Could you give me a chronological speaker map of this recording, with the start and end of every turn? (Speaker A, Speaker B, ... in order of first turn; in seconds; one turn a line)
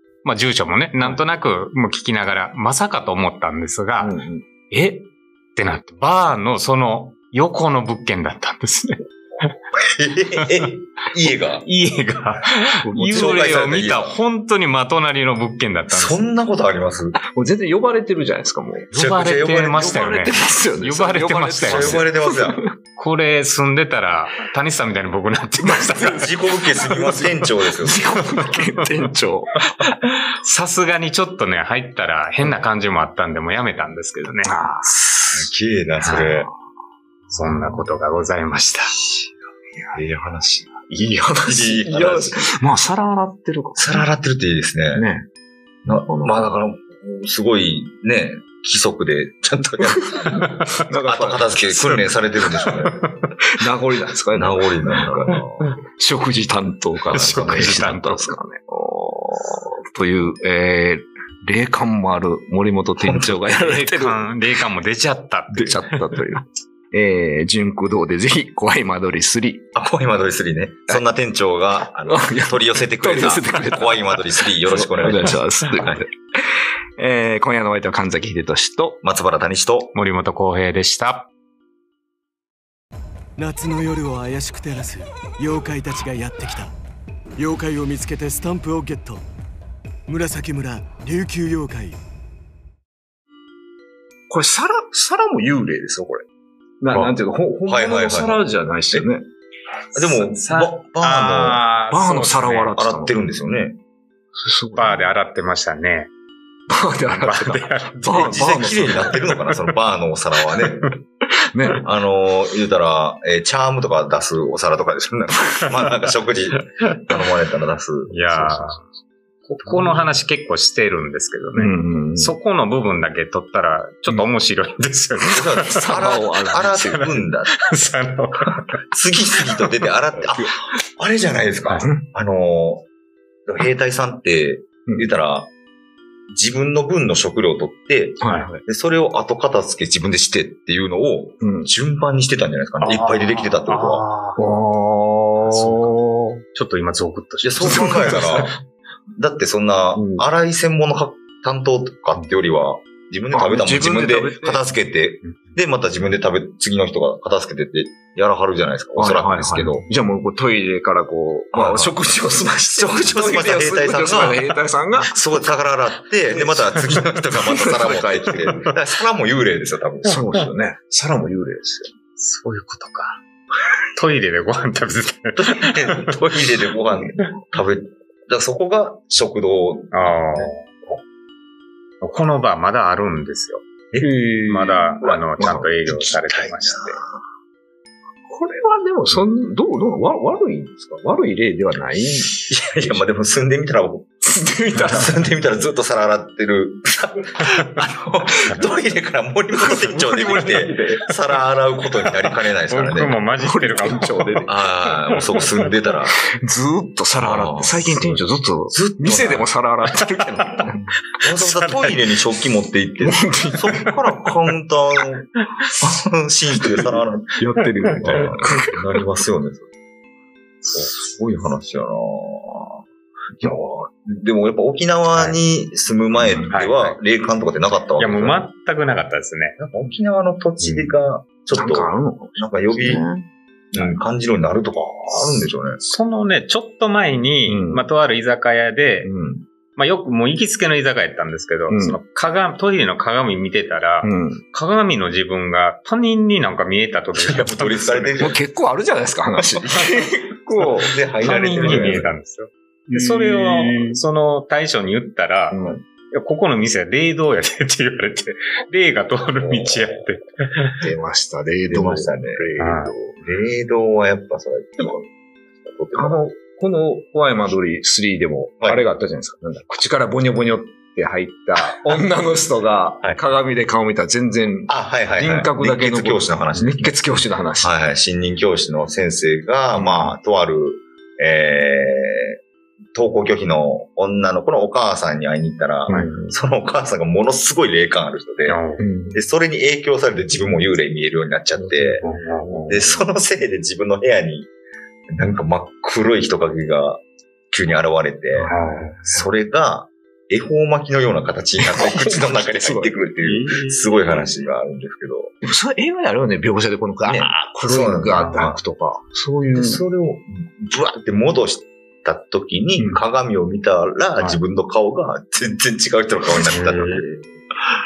Speaker A: 0.2-4.1
Speaker B: 4.0-4.4
Speaker A: 4.7-9.5
Speaker C: 10.0-11.6
Speaker A: 10.4-10.7
Speaker A: 11.5-16.2
Speaker B: 12.8-13.7
Speaker C: 13.1-14.2
Speaker C: 15.9-17.2
Speaker B: 17.1-19.0
Speaker A: 18.9-22.1
Speaker C: 18.9-19.8
Speaker B: 19.7-22.6
Speaker C: 21.6-22.6
Speaker A: 22.9-26.3
Speaker B: 25.6-26.3
Speaker C: 26.1-28.1
Speaker B: 26.8-29.7
Speaker A: 28.6-29.0
Speaker A: 30.4-34.5
Speaker B: 34.4-35.4
Speaker C: 35.3-36.5
Speaker A: 36.0-36.3
Speaker B: 36.1-36.5
Speaker A: 37.3-38.9
Speaker C: 39.0-39.3
Speaker C: 39.9-40.8
Speaker B: 40.9-44.1
Speaker C: 41.4-42.4
Speaker C: 43.8-45.0
Speaker B: 44.9-45.3
Speaker C: 45.8-53.0
Speaker B: 45.9-46.5
Speaker A: 50.4-50.7
Speaker B: 50.9-52.1
Speaker A: 52.6-53.2
Speaker B: 53.5-64.3
Speaker C: 54.3-55.8
Speaker A: 57.1-58.4
Speaker C: 57.1-57.9
Speaker A: 63.7-66.2
Speaker B: 65.5-69.7
Speaker C: 69.7-76.0
Speaker B: 72.0-74.1
Speaker B: 74.6-76.2
Speaker B: 77.0-79.0
Speaker C: 79.0-79.9
Speaker A: 79.9-81.3
Speaker D: 83.4-86.7
Speaker D: 87.4-89.2
Speaker D: 90.1-92.0
Speaker B: 94.3-96.2
Speaker B: 96.8-99.3
Speaker C: 96.9-99.1
Speaker C: 99.9-101.6
Speaker A: 99.9-102.8
Speaker B: 101.9-103.2
Speaker C: 102.8-103.8
Speaker B: 104.3-105.2
Speaker A: 104.7-106.1
Speaker B: 106.7-109.1
Speaker A: 107.1-109.7
Speaker C: 108.1-111.0
Speaker B: 111.4-111.8
Speaker C: 111.8-118.7
Speaker A: 118.1-118.8
Speaker A: 119.4-126.0
Speaker B: 119.7-120.1
Speaker B: 121.5-122.4
Speaker C: 125.3-132.9
Speaker B: 125.7-127.1
Speaker A: 126.5-128.8
Speaker C: 133.5-135.5
Speaker C: 136.3-144.1
Speaker B: 138.2-138.6
Speaker A: 138.2-138.5
Speaker B: 141.4-141.7
Speaker A: 142.8-144.4
Speaker B: 144.4-146.4
Speaker A: 145.4-145.9
Speaker A: 146.5-148.4
Speaker C: 147.4-148.6
Speaker B: 147.6-148.5
Speaker C: 149.1-159.8
Speaker B: 149.9-150.3
Speaker B: 153.3-154.6
Speaker B: 158.9-165.2
Speaker C: 161.5-161.9
Speaker C: 162.7-164.4
Speaker C: 164.9-170.2
Speaker B: 166.3-168.7
Speaker B: 170.0-171.9
Speaker A: 172.2-173.2
Speaker A: 173.9-176.1
Speaker C: 175.3-181.0
Speaker A: 179.9-180.7
Speaker A: 182.0-183.6
Speaker B: 184.0-185.8
Speaker A: 184.5-187.0
Speaker C: 185.0-186.9
Speaker B: 188.3-193.0
Speaker C: 192.5-194.2
Speaker B: 194.2-195.1
Speaker C: 194.9-203.2
Speaker B: 199.6-201.0
Speaker A: 202.7-205.5
Speaker B: 203.3-204.5
Speaker C: 204.5-206.1
Speaker B: 206.1-210.9
Speaker C: 207.2-208.1
Speaker C: 208.7-209.5
Speaker A: 209.9-210.7
Speaker C: 211.2-215.3
Speaker A: 211.3-212.0
Speaker B: 213.0-213.9
Speaker C: 215.8-217.4
Speaker B: 217.4-218.7
Speaker A: 218.0-218.3
Speaker C: 218.0-219.7
Speaker A: 220.6-220.9
Speaker C: 220.7-222.8
Speaker C: 223.4-228.5
Speaker B: 226.2-226.6
Speaker A: 226.5-227.0
Speaker A: 228.0-229.6
Speaker C: 229.6-233.0
Speaker A: 230.6-231.0
Speaker B: 231.5-233.3
Speaker C: 233.7-235.8
Speaker A: 235.1-239.1
Speaker B: 237.4-237.9
Speaker B: 239.0-239.4
Speaker A: 239.7-248.3
Speaker B: 241.7-242.0
Speaker B: 244.0-244.4
Speaker C: 247.1-248.4
Speaker B: 248.2-250.9
Speaker A: 249.7-250.1
Speaker A: 250.6-260.8
Speaker C: 250.8-252.2
Speaker B: 251.4-252.1
Speaker B: 252.9-254.0
Speaker B: 255.5-255.8
Speaker C: 259.4-260.1
Speaker B: 260.8-263.2
Speaker C: 261.7-262.4
Speaker A: 262.6-262.9
Speaker C: 263.2-266.3
Speaker B: 265.9-277.7
Speaker C: 268.6-268.8
Speaker C: 274.7-276.9
Speaker C: 277.6-282.4
Speaker B: 279.7-280.1
Speaker C: 282.9-288.6
Speaker B: 285.9-286.3
Speaker A: 288.4-288.8
Speaker B: 288.8-289.2
Speaker C: 289.1-292.0
Speaker B: 291.6-293.0
Speaker A: 292.0-292.9
Speaker C: 292.7-294.5
Speaker C: 295.1-298.5
Speaker B: 298.3-299.3
Speaker A: 298.5-299.0
Speaker C: 299.1-305.3
Speaker B: 301.6-304.3
Speaker B: 305.4-309.8
Speaker C: 307.0-308.6
Speaker C: 309.5-317.4
Speaker A: 316.3-317.0